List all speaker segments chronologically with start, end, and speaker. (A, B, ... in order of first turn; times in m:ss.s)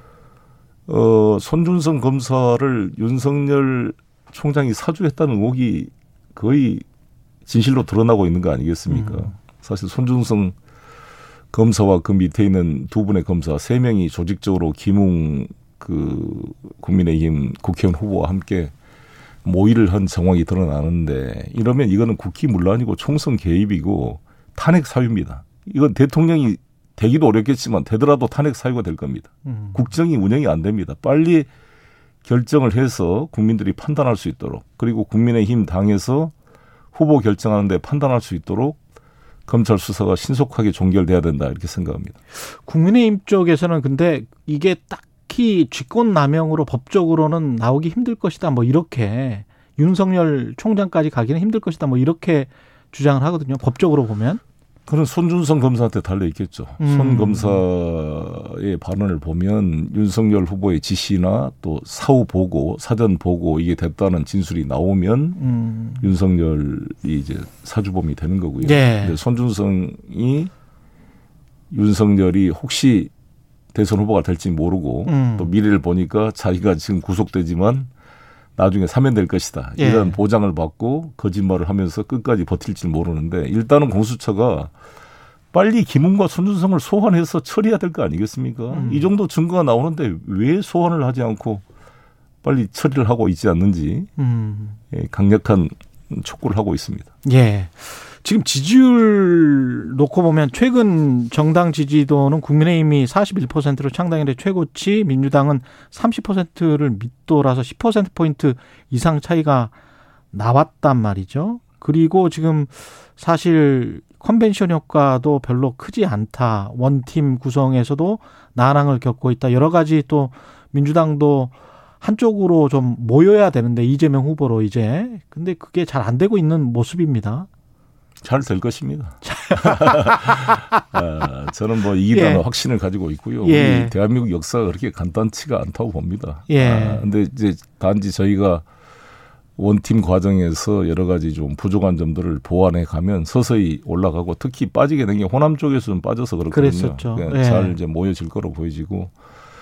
0:00.9-0:06.8 A
0:07.4-0:10.5 A
0:08.9-0:09.3 B
0:11.5-0:18.7 A
0:19.4-0:31.5 A
0:29.4-0:29.8 B
0:32.2-0:36.3 A
0:36.9-0:38.8 A
0:39.5-0:42.2 A
0:42.4-0:54.4 B
0:54.9-1:05.4 A
0:56.8-0:57.6 B
1:05.4-1:06.0 B
1:06.0-1:10.5 A
1:08.6-1:09.2 B
1:11.7-1:13.1 A
1:13.7-1:17.9 A
1:15.0-1:15.5 B
1:18.6-1:24.7 A
1:19.8-1:20.2 B
1:25.5-1:31.6 A
1:28.7-1:29.1 B
1:32.4-1:34.1 A
1:34.2-1:34.8 B
1:34.9-1:37.1 A
1:37.2-1:49.7 B
1:50.3-2:07.5 B
2:08.2-2:18.6 A
2:09.2-2:10.8 B
2:12.1-2:12.4 B
2:13.4-2:13.9 B
2:16.5-2:17.0 B
2:19.6-2:29.1 A
2:26.5-2:27.8 B